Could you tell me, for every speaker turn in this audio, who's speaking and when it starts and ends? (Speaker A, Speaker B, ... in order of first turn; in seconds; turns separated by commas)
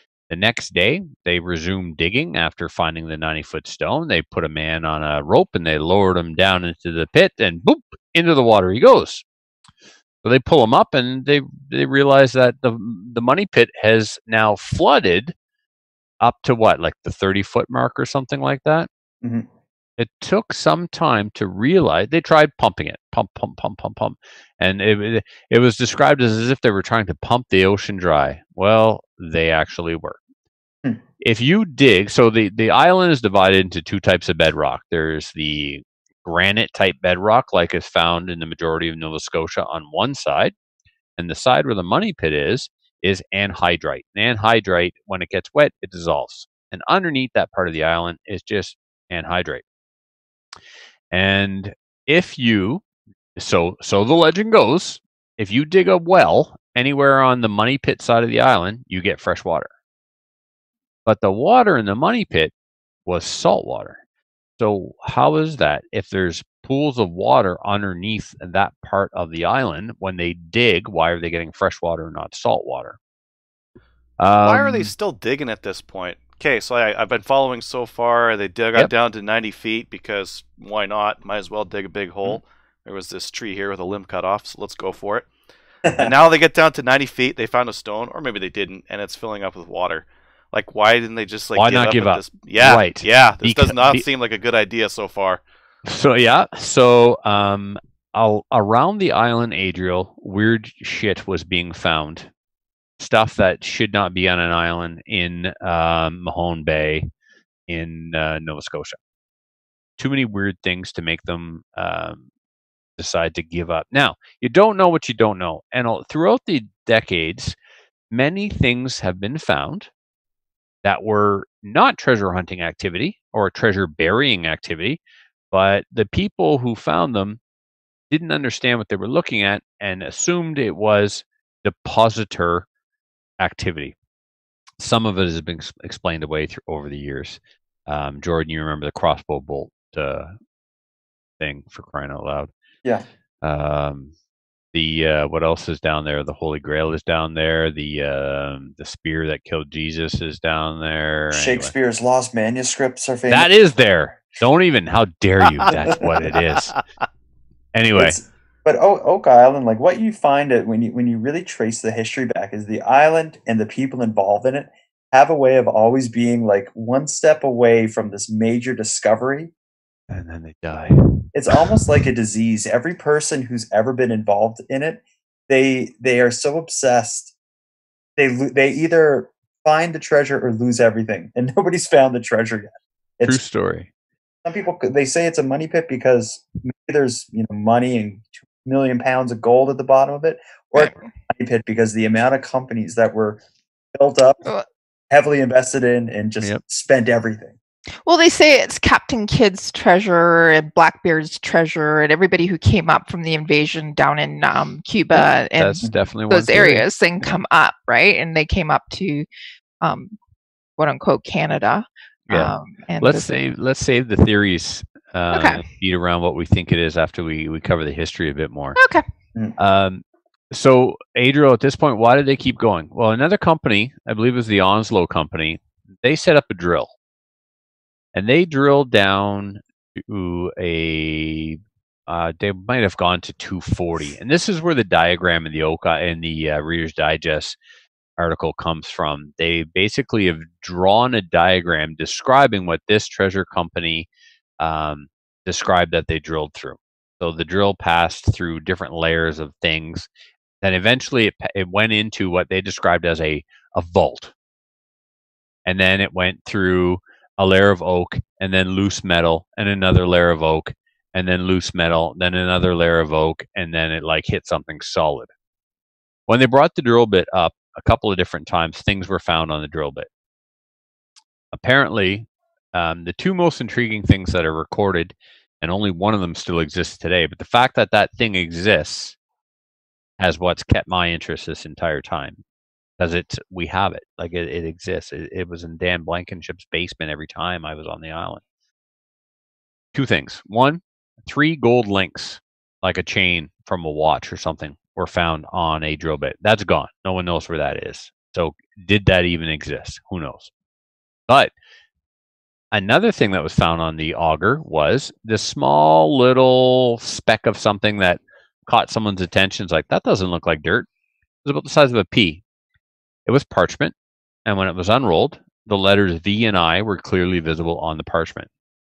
Speaker A: 0.3-9.2, Speaker A: 10.2-15.3, Speaker A: 16.2-18.9, Speaker B: 19.2-19.5, Speaker A: 20.0-30.2, Speaker A: 31.2-40.5, Speaker A: 41.2-49.6, Speaker A: 51.1-52.8, Speaker A: 53.4-59.7, Speaker A: 61.1-62.5, Speaker A: 63.1-64.0, Speaker A: 64.6-73.0, Speaker A: 74.2-74.9, Speaker C: 74.4-85.3, Speaker B: 85.9-86.1, Speaker C: 86.0-95.4, Speaker A: 91.5-94.0, Speaker A: 95.9-102.3, Speaker A: 103.0-107.1, Speaker A: 107.7-109.0, Speaker A: 110.0-112.2, Speaker A: 113.0-117.6, Speaker A: 118.1-119.9, Speaker A: 120.8-125.0, Speaker A: 125.5-127.4, Speaker A: 128.1-132.7, Speaker A: 133.4-134.0, Speaker A: 134.8-140.3, Speaker A: 141.4-142.5, Speaker A: 143.4-144.1, Speaker A: 144.7-151.7, Speaker B: 151.3-153.5, Speaker A: 153.3-156.8, Speaker C: 155.6-156.8, Speaker B: 155.7-156.1, Speaker A: 157.7-158.2, Speaker B: 158.0-169.5, Speaker A: 170.1-171.7, Speaker B: 171.3-177.3, Speaker B: 178.2-183.4, Speaker A: 183.2-183.9, Speaker B: 184.4-193.4, Speaker D: 190.8-191.1, Speaker B: 193.9-194.4, Speaker B: 195.1-197.6, Speaker D: 198.0-209.3, Speaker A: 205.1-207.4, Speaker D: 209.8-210.2, Speaker D: 210.8-213.3, Speaker A: 212.3-218.8, Speaker D: 215.3-215.6, Speaker D: 218.8-219.0, Speaker A: 219.6-226.9, Speaker A: 228.1-237.6, Speaker A: 238.2-244.1, Speaker A: 244.6-250.1, Speaker A: 250.6-254.3, Speaker A: 255.6-265.3, Speaker A: 266.3-270.1, Speaker A: 271.5-279.2, Speaker A: 280.2-282.4, Speaker A: 283.0-288.4, Speaker A: 289.9-300.5, Speaker A: 301.3-301.5, Speaker A: 302.7-310.9, Speaker A: 311.4-312.4, Speaker A: 313.2-318.5